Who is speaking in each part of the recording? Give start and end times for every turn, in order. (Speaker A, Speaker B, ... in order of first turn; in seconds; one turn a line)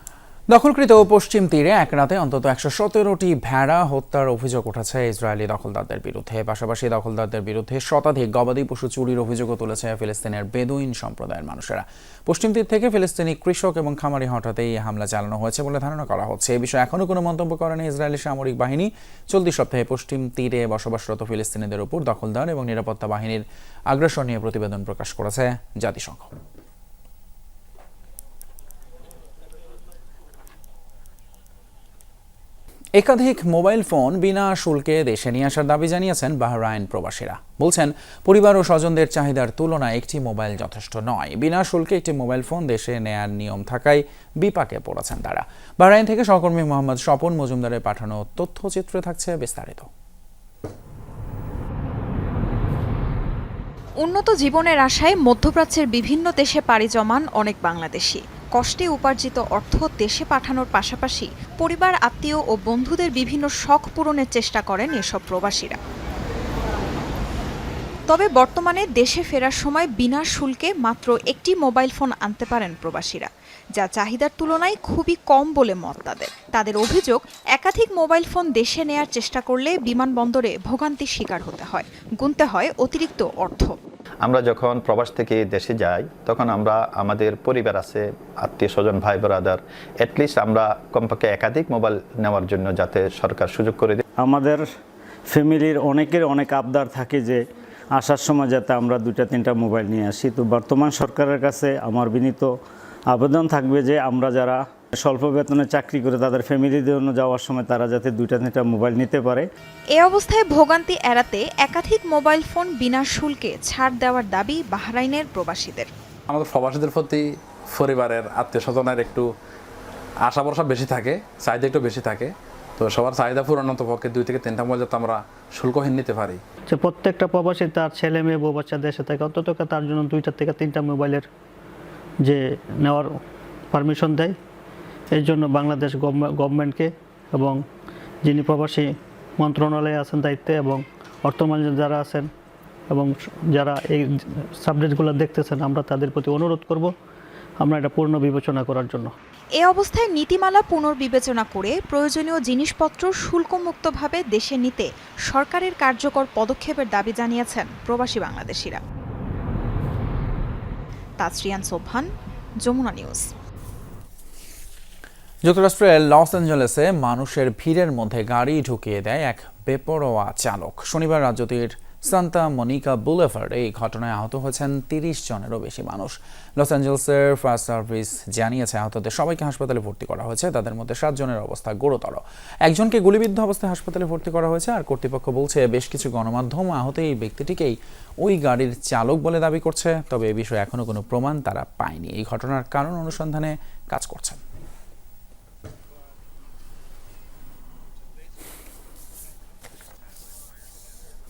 Speaker A: 0.5-26.3
Speaker A: 33.0-49.9
Speaker B: 54.0-65.8
Speaker B: 68.1-83.7
Speaker C: 84.2-94.0
Speaker D: 94.2-94.6
Speaker D: 95.3-97.4
Speaker D: 98.0-102.5
Speaker D: 103.1-109.5
Speaker B: 110.0-115.9
Speaker E: 116.3-119.2
Speaker E: 120.2-126.4
Speaker F: 126.7-131.3
Speaker F: 132.2-133.1
Speaker F: 133.7-134.4
Speaker F: 135.1-137.6
Speaker F: 138.2-142.3
Speaker F: 142.9-146.9
Speaker F: 147.6-149.1
Speaker B: 149.6-158.8
Speaker B: 161.2-162.1
Speaker B: 162.6-163.3
Speaker A: 165.4-194.4